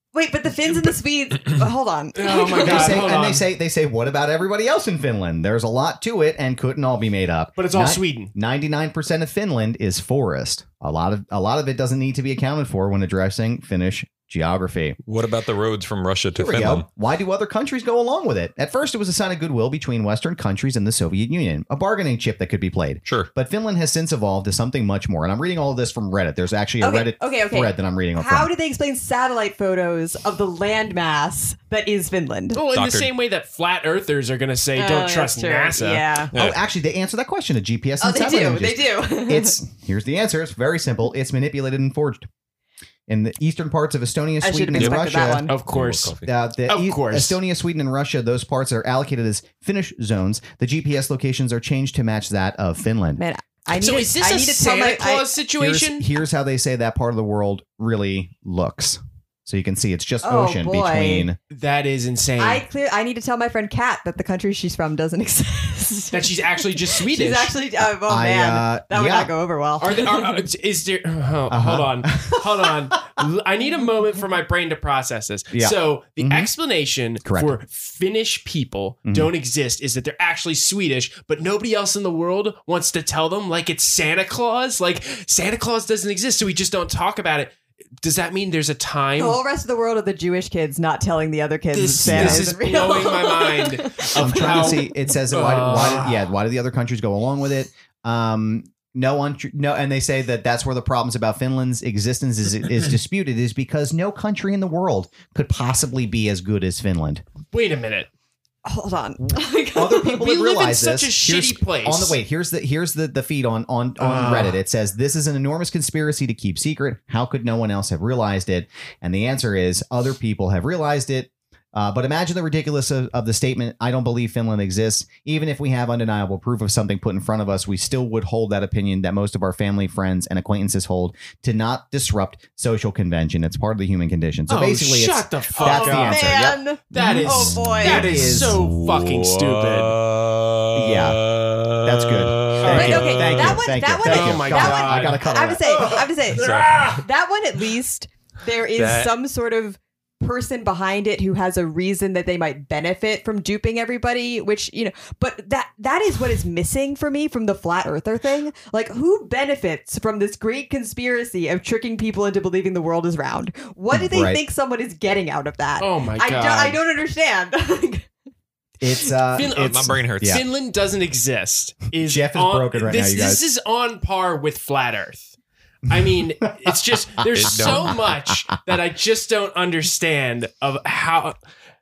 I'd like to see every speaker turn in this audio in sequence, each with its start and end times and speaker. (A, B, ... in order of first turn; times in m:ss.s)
0:00.1-0:03.0 A
0:02.2-0:03.5 B
0:02.6-0:15.0 C
0:07.6-0:08.3 B
0:15.0-0:16.9 D
0:16.4-0:28.5 C
0:23.0-0:23.3 D
0:26.8-0:32.6 A
0:32.5-0:36.1 B
0:32.7-0:33.1 D
0:34.8-0:36.3 A
0:36.3-0:36.6 D
0:36.3-0:42.3 C
0:38.0-0:39.6 A
0:43.1-0:45.5 C
0:44.4-0:45.6 A
0:44.8-0:46.3 D
0:45.5-0:47.4 B
0:46.2-0:53.2 C
0:53.2-0:55.3 A
0:53.7-0:56.1 B
0:55.6-1:01.4 C
1:00.2-1:01.3 A
1:01.5-1:02.6 B
1:02.4-1:06.2 A
1:06.1-1:07.6 B
1:06.8-1:10.2 A
1:08.1-1:09.3 C
1:09.8-1:29.4 B
1:11.5-1:12.7 C
1:15.5-1:16.5 C
1:17.2-1:17.6 C
1:19.1-1:19.3 C
1:29.2-1:34.8 A
1:31.7-1:36.3 B
1:32.0-1:32.5 C
1:34.2-1:47.2 C
1:47.5-1:48.1 B
1:48.6-1:50.2 A
1:49.3-2:18.6 C
1:50.2-1:52.2 B
1:54.0-1:54.6 B
2:14.5-2:16.3 B
2:15.6-2:18.1 A
2:16.9-2:20.0 B
2:18.3-2:23.6 D
2:20.7-2:21.2 C
2:21.8-2:25.9 C
2:22.6-2:23.1 B
2:22.7-2:48.1 A
2:24.0-2:27.0 B
2:26.3-2:27.0 D
2:28.8-2:29.1 D
2:43.9-2:44.4 C
2:45.8-2:46.8 B
2:48.8-2:50.4 C
2:49.3-2:55.4 B
2:49.4-2:50.4 D
2:52.0-2:53.4 C
2:55.9-3:01.4 B
2:56.6-2:57.9 C
2:57.3-2:58.0 D